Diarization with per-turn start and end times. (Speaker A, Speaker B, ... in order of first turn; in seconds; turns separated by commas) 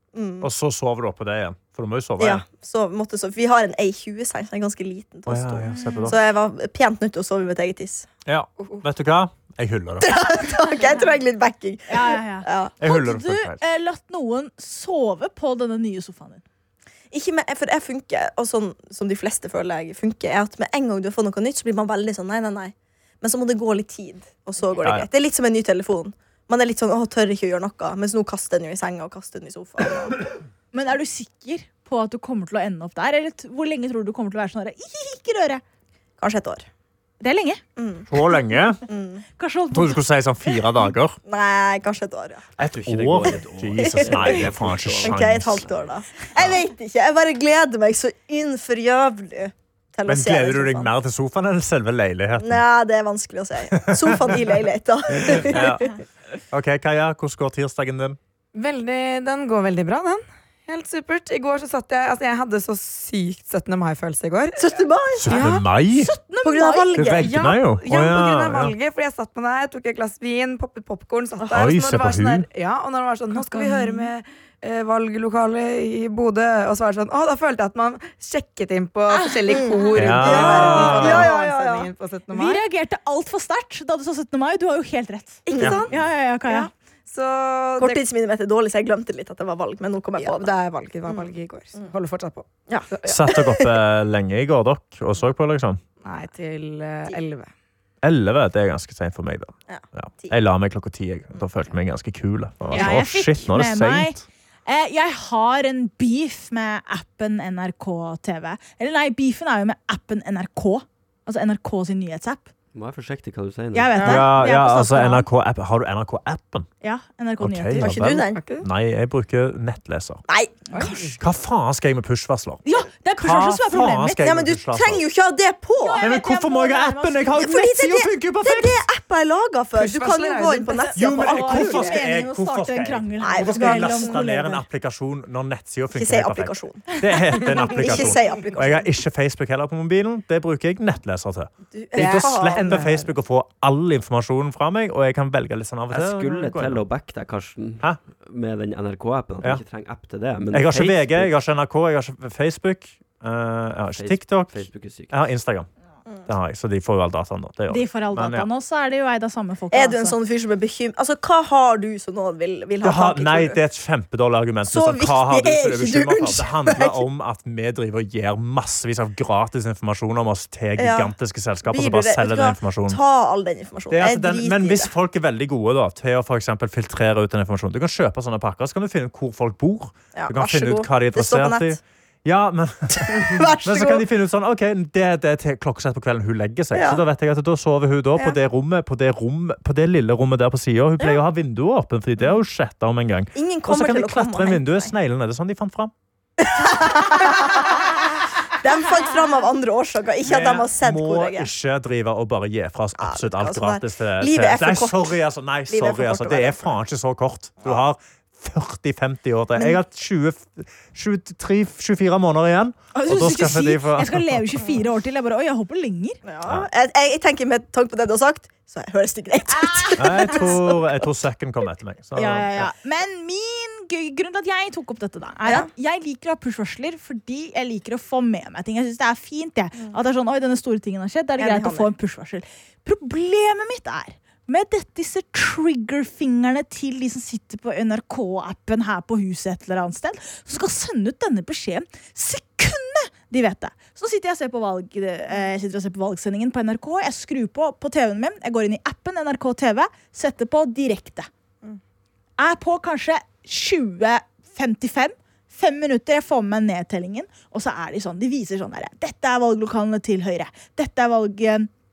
Speaker A: 0.1-0.5, Speaker B: 0.4-2.4, Speaker A: 2.2-8.1, Speaker B: 5.3-6.2, Speaker C: 5.7-6.1, Speaker B: 8.2-10.1, Speaker A: 10.0-12.7, Speaker C: 11.9-16.4, Speaker B: 12.8-13.6, Speaker A: 17.1-30.3, Speaker B: 24.8-25.1, Speaker C: 30.7-35.6, Speaker A: 36.2-36.6, Speaker C: 37.2-37.6, Speaker A: 37.8-38.1, Speaker B: 38.1-38.8, Speaker A: 38.9-39.2, Speaker C: 39.4-40.0, Speaker B: 39.7-41.2, Speaker A: 41.2-42.4, Speaker B: 42.6-45.7, Speaker D: 42.6-45.7, Speaker A: 43.3-44.4, Speaker A: 45.0-50.9, Speaker B: 50.1-52.6, Speaker A: 52.4-55.9, Speaker B: 53.8-54.4, Speaker B: 55.2-55.9, Speaker B: 56.5-58.2, Speaker E: 58.5-64.6, Speaker A: 64.6-65.5, Speaker B: 65.2-66.1, Speaker E: 65.3-65.6, Speaker C: 65.9-67.1, Speaker A: 66.4-67.5, Speaker B: 67.0-68.7, Speaker E: 67.1-82.6, Speaker A: 71.4-71.7, Speaker B: 71.5-72.5, Speaker C: 73.3-74.1, Speaker C: 79.1-79.6, Speaker A: 79.5-81.9, Speaker B: 80.0-81.3, Speaker C: 82.3-86.7, Speaker A: 85.5-85.9, Speaker B: 85.6-85.8, Speaker E: 87.1-88.0, Speaker A: 87.8-90.5, Speaker E: 90.2-93.2, Speaker A: 91.1-91.9, Speaker A: 92.7-93.7, Speaker B: 93.0-95.8, Speaker E: 96.0-97.5, Speaker B: 98.0-104.2, Speaker A: 99.7-100.4, Speaker A: 102.7-102.9, Speaker C: 102.7-112.5, Speaker D: 112.7-114.0, Speaker C: 113.7-115.3, Speaker E: 114.0-114.2, Speaker B: 114.0-116.7, Speaker C: 116.8-118.0, Speaker B: 117.4-120.2, Speaker A: 117.8-118.5, Speaker E: 118.3-118.6, Speaker A: 120.3-121.2, Speaker E: 120.7-121.2, Speaker B: 121.2-122.6, Speaker C: 122.6-124.2, Speaker B: 123.2-125.0, Speaker A: 124.2-126.1, Speaker C: 125.8-127.4, Speaker B: 126.0-128.8, Speaker A: 127.4-132.0, Speaker E: 129.7-130.9, Speaker C: 130.8-134.6, Speaker B: 130.9-146.8, Speaker A: 133.2-134.2, Speaker A: 135.9-138.9, Speaker A: 141.7-142.8, Speaker E: 141.9-143.1, Speaker D: 145.9-151.3, Speaker B: 150.5-155.7, Speaker D: 153.9-155.1, Speaker B: 156.3-158.5, Speaker C: 157.7-160.2, Speaker A: 159.7-163.6, Speaker B: 162.8-173.0, Speaker A: 164.7-167.0, Speaker A: 170.8-171.1, Speaker A: 171.7-174.9, Speaker B: 173.9-195.9, Speaker A: 180.1-181.8, Speaker A: 183.1-184.0, Speaker A: 186.7-187.0, Speaker A: 193.3-194.9, Speaker A: 196.4-197.9, Speaker A: 198.6-201.5, Speaker B: 200.2-214.4, Speaker A: 203.0-205.2, Speaker A: 205.7-206.7, Speaker C: 212.9-216.2, Speaker A: 216.2-220.9, Speaker C: 219.5-220.6, Speaker B: 220.0-222.7, Speaker C: 222.2-251.3, Speaker A: 231.4-231.9, Speaker C: 252.4-261.7